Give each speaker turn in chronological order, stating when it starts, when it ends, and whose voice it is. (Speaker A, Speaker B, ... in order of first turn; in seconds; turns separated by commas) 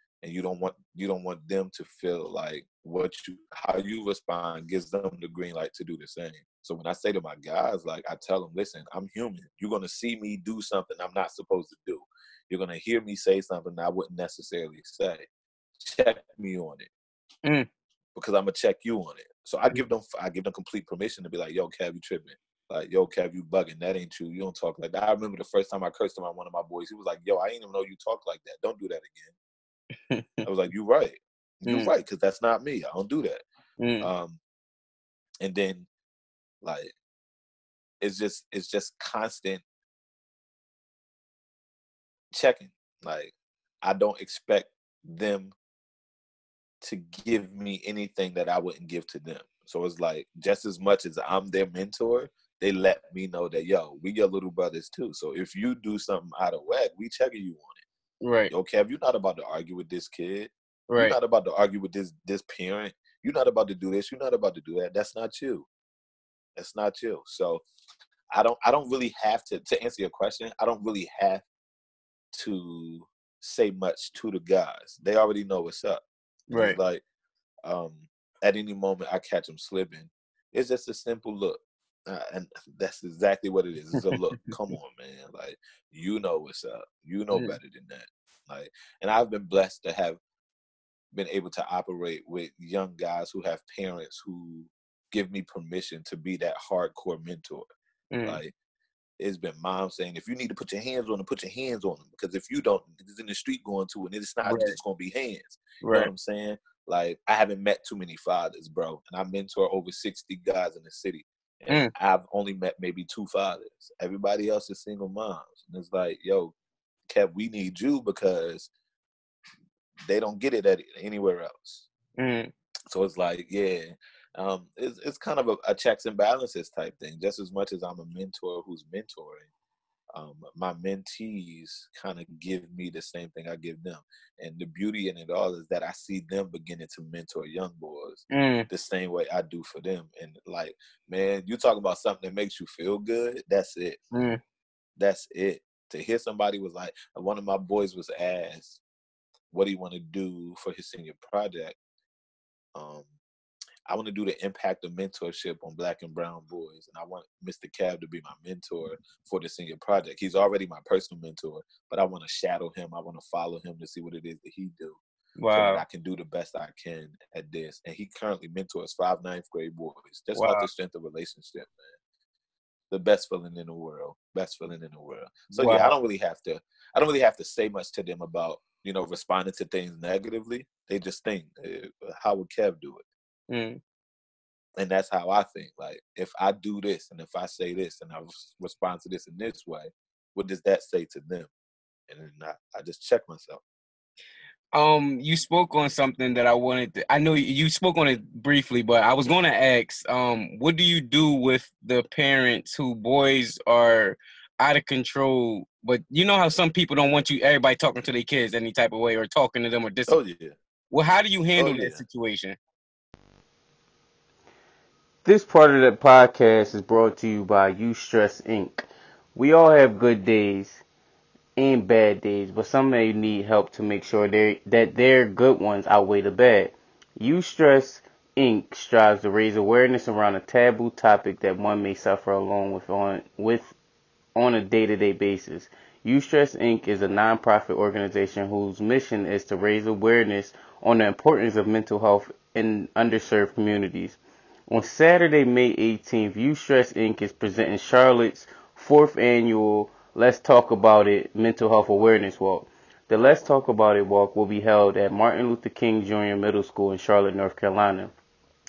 Speaker A: 0.2-15.3, Speaker A: 15.8-16.9, Speaker A: 18.1-29.3, Speaker B: 30.1-30.4, Speaker A: 30.4-33.4, Speaker B: 31.6-31.9, Speaker B: 33.8-34.1, Speaker A: 34.0-34.4, Speaker A: 35.4-35.9, Speaker A: 36.6-36.9, Speaker A: 38.0-39.6, Speaker A: 42.3-45.5, Speaker A: 46.8-57.8, Speaker B: 58.2-58.5, Speaker A: 58.5-65.7, Speaker B: 60.9-61.2, Speaker A: 66.5-67.6, Speaker A: 68.3-71.4, Speaker A: 72.3-77.0, Speaker B: 76.5-76.8, Speaker A: 77.6-90.2, Speaker B: 87.3-87.6, Speaker A: 91.1-97.7, Speaker B: 98.1-98.4, Speaker A: 98.2-98.5, Speaker A: 99.2-116.5, Speaker B: 104.5-104.8, Speaker B: 105.8-106.1, Speaker A: 117.1-118.7, Speaker A: 120.1-121.9, Speaker B: 122.2-122.5, Speaker A: 122.9-129.5, Speaker A: 130.1-144.0, Speaker B: 138.3-138.7, Speaker B: 144.1-144.4, Speaker A: 145.0-148.8, Speaker A: 149.5-151.8, Speaker A: 152.7-153.1, Speaker A: 153.9-165.0, Speaker B: 165.4-165.8, Speaker A: 165.5-171.9, Speaker B: 170.3-170.7, Speaker A: 172.9-183.0, Speaker B: 175.5-175.9, Speaker B: 183.5-183.8, Speaker A: 184.8-191.5, Speaker A: 192.1-193.6, Speaker B: 194.7-210.2, Speaker A: 210.1-210.5, Speaker B: 210.9-212.6, Speaker A: 211.6-212.0, Speaker C: 215.2-218.8, Speaker C: 219.3-220.8, Speaker C: 221.6-233.7, Speaker C: 234.3-244.2, Speaker C: 244.7-258.1